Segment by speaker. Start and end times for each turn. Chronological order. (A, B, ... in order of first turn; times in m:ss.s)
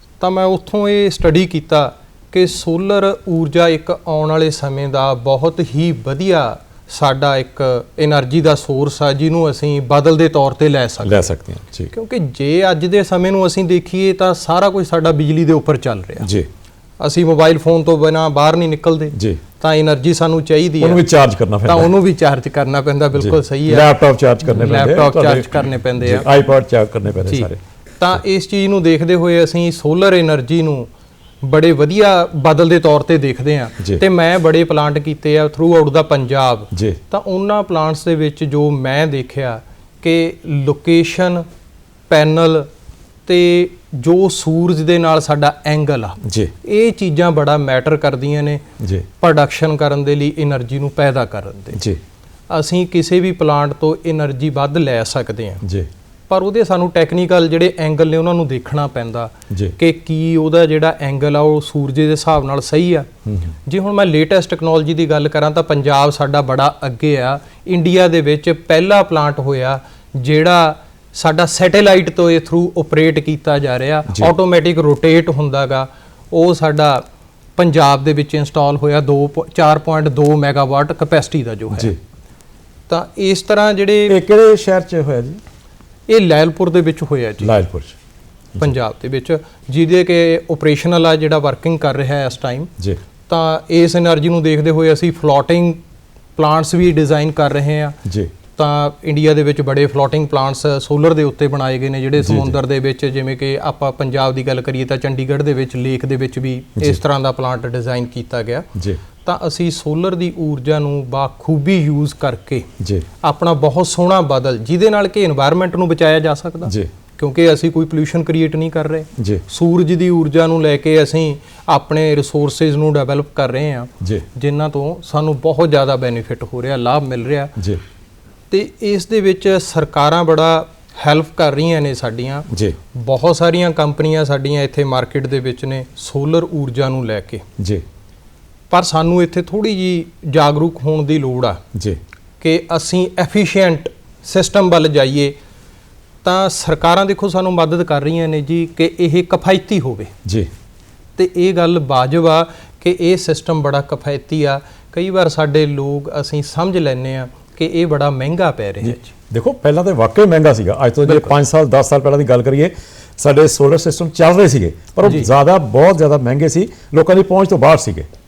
0:00.2-0:11.3 A
0:11.0-0:11.9 B
0:11.9-0:16.3 A
0:16.2-0:16.5 B
0:17.0-0:21.0 A
0:19.1-0:19.4 B
0:20.8-0:21.9 B
0:21.6-0:23.9 A
0:23.2-0:27.6 B
0:24.4-0:26.3 A
0:27.2-0:30.9 A
0:31.4-0:41.5 A
0:36.7-0:37.0 B
0:42.1-0:42.7 A
0:43.2-0:48.6 A
0:46.2-0:46.5 B
0:48.8-0:49.1 B
0:49.2-0:51.8 A
0:51.7-0:52.0 B
0:52.5-0:55.6 A
0:55.6-0:55.9 B
0:56.3-1:03.1 A
0:59.5-0:59.8 B
1:03.3-1:03.5 B
1:03.6-1:17.0 A
1:17.6-1:21.9 A
1:21.7-1:22.0 B
1:22.9-1:24.2 A
1:24.1-1:25.4 B
1:26.1-1:27.5 A
1:27.4-1:28.0 B
1:28.6-1:32.7 A
1:33.3-1:35.8 A
1:36.4-1:38.0 A
1:38.0-1:38.3 B
1:38.5-1:52.7 A
1:42.2-1:42.6 B
1:52.8-1:53.1 B
1:53.2-2:07.5 A
1:56.6-1:56.9 B
1:59.2-1:59.4 B
2:04.0-2:04.2 B
2:08.5-2:17.4 A
2:12.5-2:12.8 B
2:17.6-2:17.8 B
2:18.7-2:21.6 A
2:21.7-2:22.0 B
2:22.4-2:25.4 A
2:26.2-2:30.1 A
2:30.2-2:30.5 B
2:31.2-2:39.1 A
2:38.8-2:48.1 B
2:41.0-2:41.3 A
2:45.0-2:45.3 A